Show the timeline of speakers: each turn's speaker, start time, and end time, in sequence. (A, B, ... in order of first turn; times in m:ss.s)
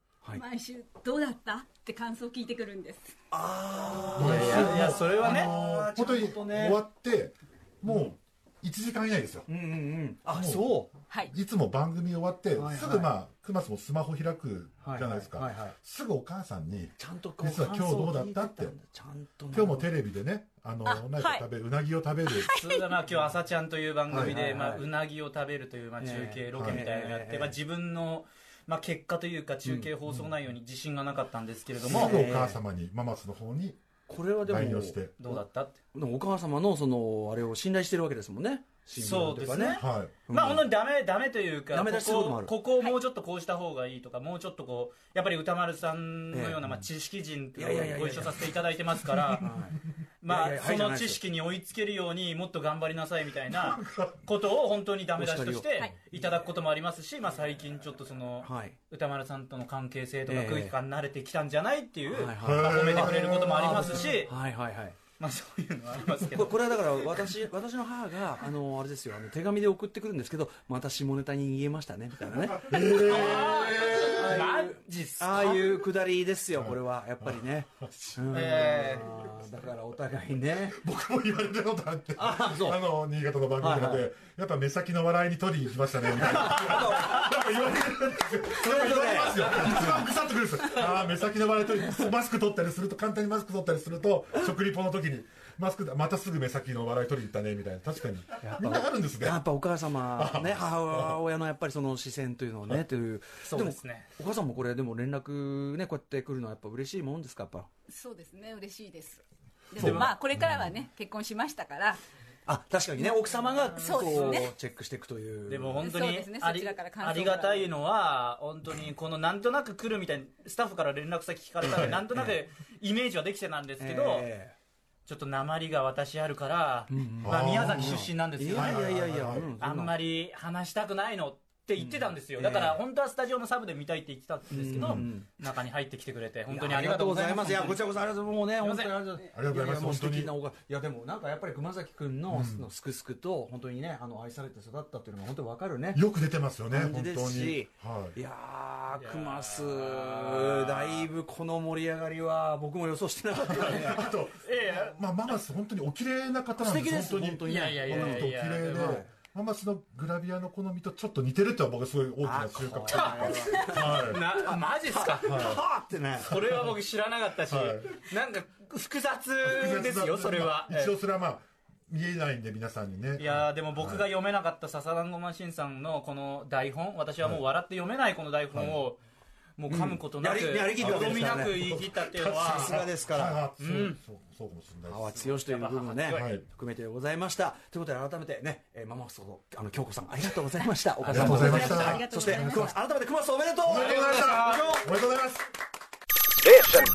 0:00.3-0:03.1 A
0:03.3-0:06.8 B
0:04.2-0:09.5 C
0:04.2-0:05.5 D
0:07.9-0:08.1 B
0:09.5-0:10.9 B
0:10.3-0:18.8 C
0:12.5-0:13.2 B
0:14.8-0:15.8 B
0:17.0-0:20.0 B
0:19.5-0:22.5 C
0:20.8-0:21.5 A
0:22.3-0:22.9 A
0:22.6-0:32.3 D
0:24.1-0:24.9 B
0:26.0-0:27.6 B
0:26.5-0:26.8 C
0:29.6-0:30.3 B
0:31.8-0:33.8 C
0:31.8-0:32.6 B
0:34.1-0:40.7 B
0:34.4-0:35.2 C
0:35.2-0:35.8 D
0:38.9-0:49.5 D
0:39.7-0:40.2 C
0:41.7-0:42.6 B
0:46.3-0:46.7 B
0:47.6-0:48.6 B
0:49.1-0:49.4 C
0:49.4-0:51.2 B
0:50.2-1:04.4 D
0:53.5-0:54.2 C
0:55.2-0:55.7 B
0:58.4-0:58.8 B
1:00.3-1:00.8 B
1:02.1-1:05.0 B
1:02.4-1:04.1 C
1:05.2-1:06.8 D
1:06.3-1:20.8 B
1:12.5-1:14.4 C
1:12.8-1:15.8 D
1:16.5-1:18.9 C
1:18.3-1:19.2 D
1:20.6-1:39.5 C
1:22.2-1:22.8 B
1:23.6-1:24.1 B
1:26.1-1:27.4 B
1:28.5-1:30.1 B
1:38.4-1:47.7 B
1:40.0-1:41.2 C
1:43.4-1:44.1 D
1:47.9-1:52.0 A
1:49.8-1:50.8 C
1:49.8-1:50.1 D
1:52.5-1:55.9 B
1:53.8-1:54.5 A
1:53.8-1:54.4 D
1:55.5-2:04.3 D
1:55.8-1:57.7 A
2:01.6-2:02.4 B
2:03.8-2:04.6 B
2:05.1-2:18.0 D
2:06.9-2:10.0 B
2:07.2-2:09.5 C
2:11.8-2:12.8 B
2:14.5-2:15.3 B
2:14.8-2:15.1 C
2:16.5-2:26.0 B
2:18.5-2:19.1 D
2:19.3-2:20.4 C
2:22.3-2:22.7 C
2:25.9-2:28.2 C
2:26.7-2:34.1 B
2:28.9-2:31.1 D
2:33.4-2:44.2 C
2:33.7-2:35.0 D
2:36.6-2:39.1 B
2:37.4-2:39.0 D
2:42.2-2:46.3 B
2:42.9-2:45.6 D
2:45.2-2:45.6 C
2:46.1-2:51.0 D
2:46.2-2:46.7 C
2:47.4-2:48.0 C
2:49.4-2:54.1 C
2:53.2-2:59.0 D
2:58.5-2:58.8 C
2:59.6-3:02.9 D
2:59.7-3:01.7 B
3:00.8-3:05.3 C
3:02.4-3:03.4 B
3:03.6-3:04.0 D
3:04.9-3:14.9 B
3:05.3-3:06.3 D
3:06.1-3:06.5 C
3:11.0-3:12.1 D
3:11.1-3:12.8 C
3:11.4-3:12.7 A
3:13.6-3:15.5 C
3:13.7-3:14.8 D